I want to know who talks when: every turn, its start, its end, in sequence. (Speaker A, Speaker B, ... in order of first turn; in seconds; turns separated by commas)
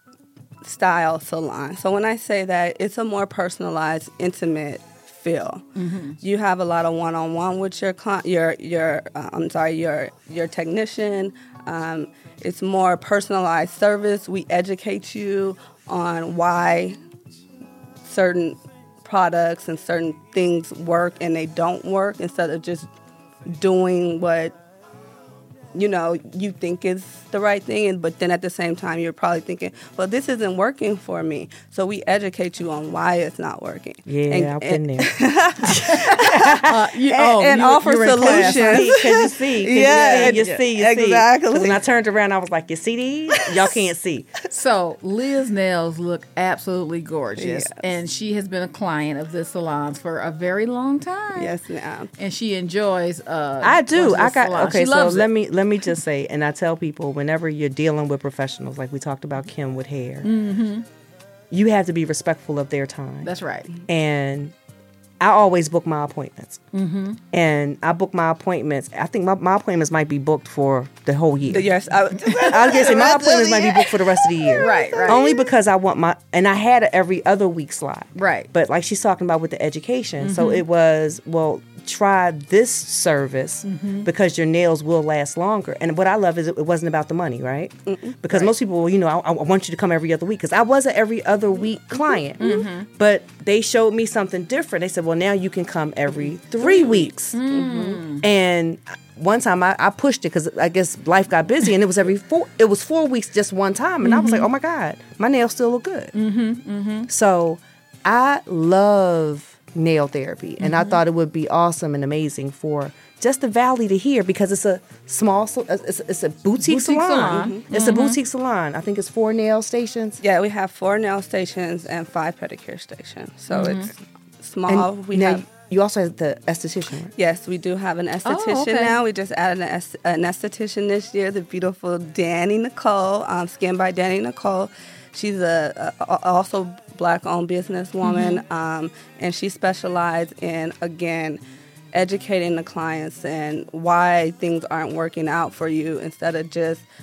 Speaker A: 0.6-5.7, Speaker B: 5.8-6.2, Speaker A: 6.2-17.0, Speaker A: 18.1-22.9, Speaker A: 23.5-24.6, Speaker A: 25.7-41.8, Speaker C: 34.1-36.7, Speaker B: 36.6-38.9, Speaker C: 38.2-44.3, Speaker B: 39.9-40.5, Speaker B: 44.5-51.5, Speaker A: 47.4-47.8, Speaker A: 51.4-52.1, Speaker B: 52.2-55.3, Speaker C: 53.6-60.3, Speaker B: 60.2-60.9, Speaker C: 61.5-63.3, Speaker B: 63.2-63.7, Speaker C: 63.9-64.5, Speaker C: 65.2-66.6, Speaker B: 66.7-67.2, Speaker C: 67.3-71.7, Speaker A: 71.5-75.5, Speaker B: 72.2-72.5, Speaker C: 72.4-97.4, Speaker B: 74.6-75.2, Speaker B: 78.2-78.5, Speaker B: 80.2-80.7, Speaker B: 83.7-84.1, Speaker A: 87.9-88.5, Speaker B: 92.4-92.9, Speaker A: 96.6-98.0, Speaker B: 97.3-98.2, Speaker C: 98.2-106.1, Speaker B: 104.0-104.5, Speaker B: 106.1-107.1, Speaker C: 107.1-120.2, Speaker B: 110.6-111.0, Speaker B: 116.6-118.2, Speaker A: 117.4-117.6, Speaker A: 120.2-125.5, Speaker B: 123.5-123.9, Speaker C: 124.7-127.1, Speaker A: 127.2-141.4, Speaker B: 128.2-129.0, Speaker B: 138.0-138.4, Speaker A: 141.9-146.9